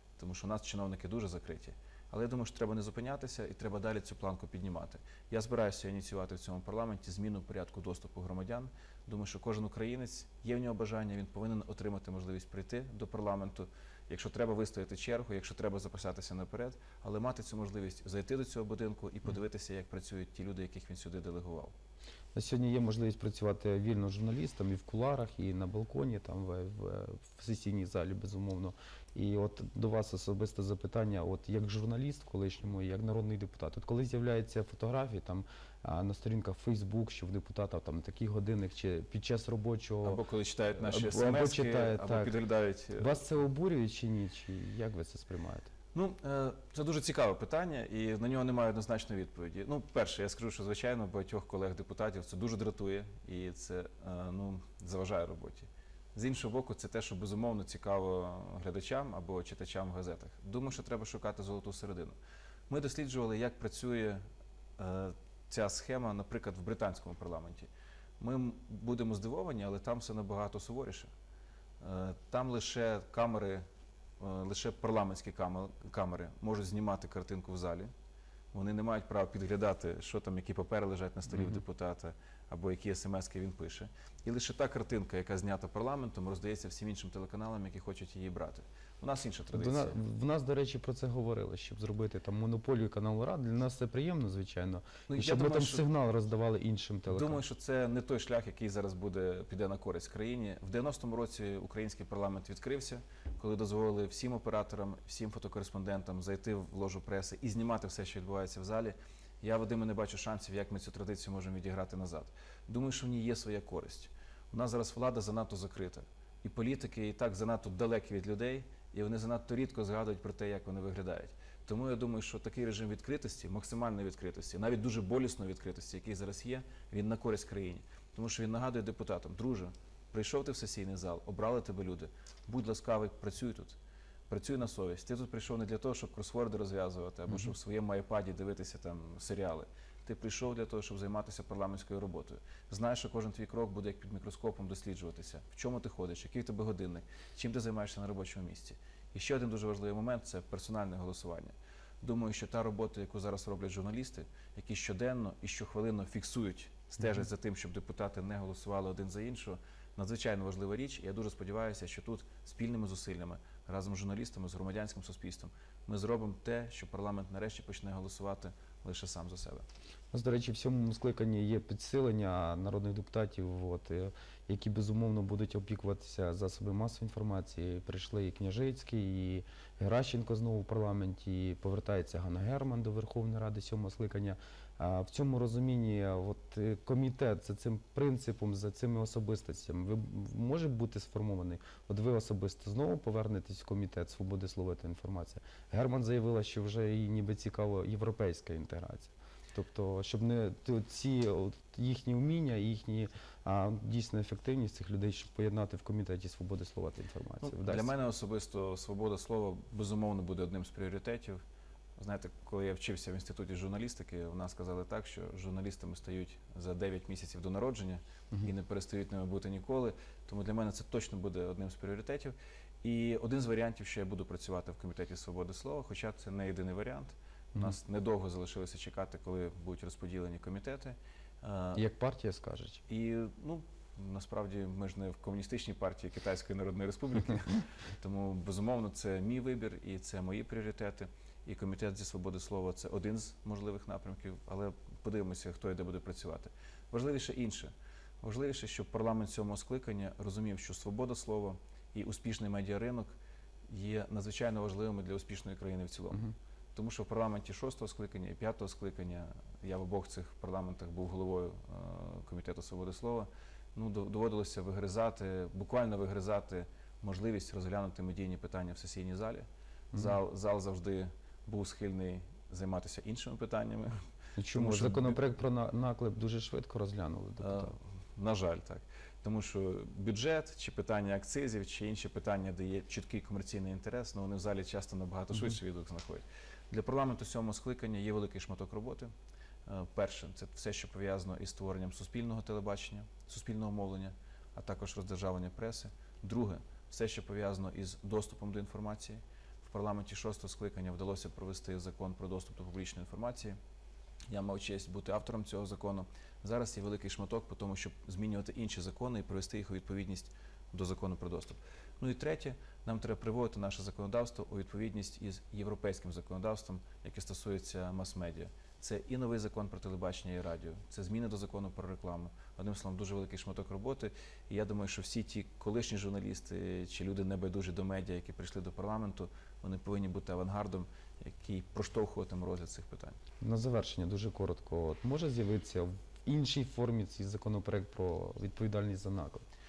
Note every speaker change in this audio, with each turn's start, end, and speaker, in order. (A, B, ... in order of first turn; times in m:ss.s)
0:00.2-0:21.7 A
0:22.3-0:40.2 B
0:40.0-0:43.1 A
0:40.7-0:42.4 B
0:43.0-0:45.7 B
0:45.9-1:02.2 A
1:02.7-1:04.2 A
1:04.8-1:11.1 A
1:11.8-1:13.6 A
1:14.2-1:17.9 A
1:18.5-1:30.0 A
1:21.3-1:21.6 B
1:29.5-1:37.4 B
1:35.1-1:35.8 A
1:37.1-2:13.8 A
2:14.3-2:49.6 A
2:50.1-3:27.9 B
3:27.4-3:31.4 A
3:32.0-3:51.8 A
3:51.8-3:52.8 B
3:52.9-4:13.1 A
4:13.7-4:33.9 A
4:29.9-4:30.2 B
4:34.4-4:37.8 B
4:34.5-4:35.2 A
4:37.4-4:49.1 A
4:49.6-5:03.6 A
5:04.3-5:33.2 A
5:33.4-5:39.4 B